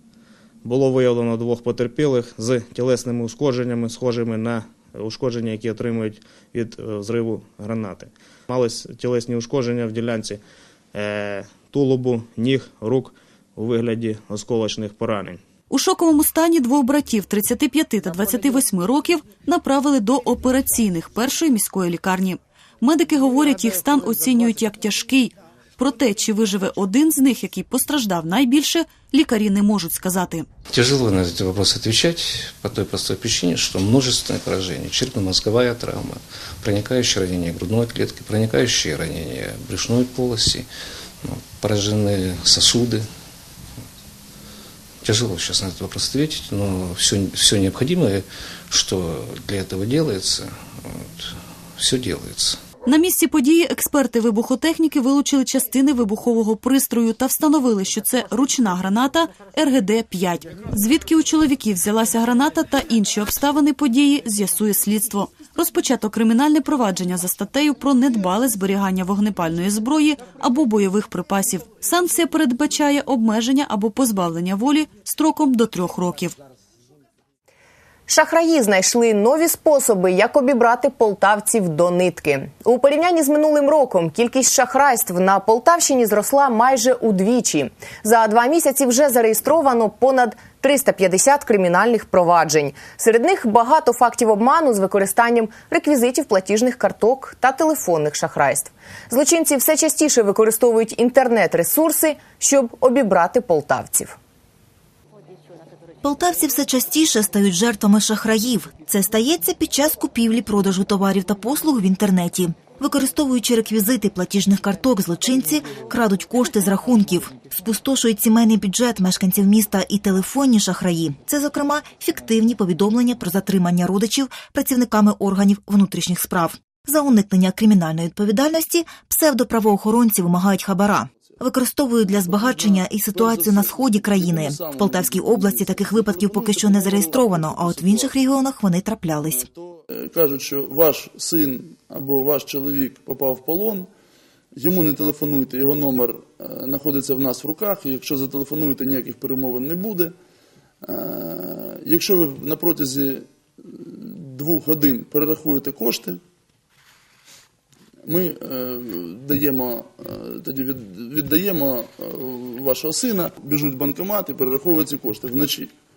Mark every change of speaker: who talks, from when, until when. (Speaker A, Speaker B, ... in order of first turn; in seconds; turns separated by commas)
Speaker A: 0.6-10.4, Speaker A: 10.9-15.4, Speaker B: 15.7-30.5, Speaker C: 30.7-40.7, Speaker C: 41.2-43.1, Speaker C: 45.0-52.6, Speaker B: 52.8-76.3, Speaker D: 78.1-104.2, Speaker E: 106.0-139.5, Speaker F: 132.2-138.1, Speaker F: 139.3-143.9, Speaker F: 144.6-150.1, Speaker F: 150.8-156.2, Speaker F: 158.0-165.7